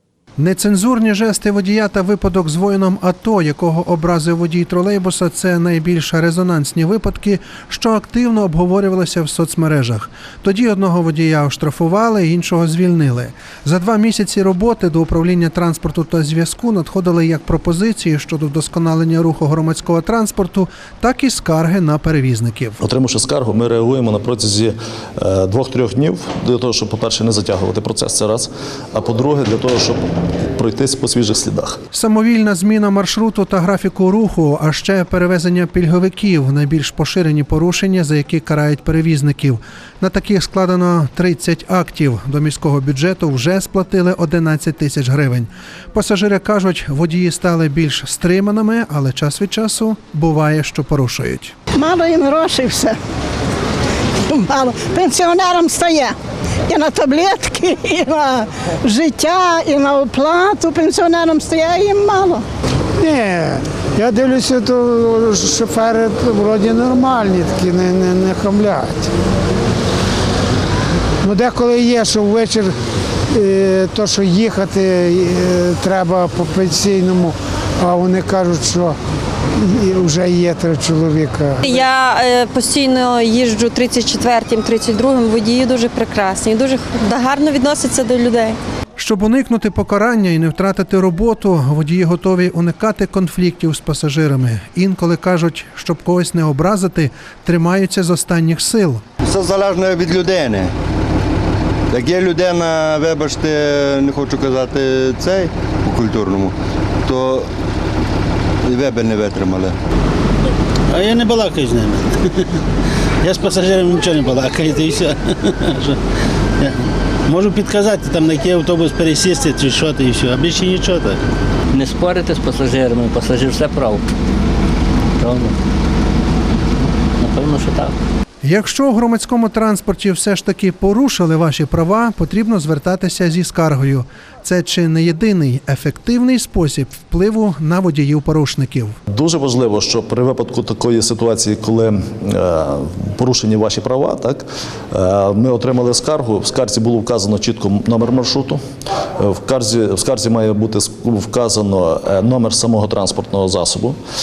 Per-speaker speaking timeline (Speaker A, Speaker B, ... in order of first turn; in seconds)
Speaker A: 0.4-22.8, 31.9-51.5, 89.0-99.0, 128.4-139.0
Speaker B: 22.8-30.0, 30.5-31.8, 139.1-148.6, 149.2-154.0
Speaker C: 51.7-53.0, 54.3-56.1, 56.7-62.4
Speaker D: 63.0-69.1, 71.2-72.7, 73.3-79.0, 79.5-81.8
Speaker E: 81.6-88.6
Speaker F: 99.2-100.7, 101.9-107.5, 108.6-109.8
Speaker G: 110.9-112.5, 113.2-116.0, 117.3-121.2
Speaker H: 121.8-124.0, 127.4-127.9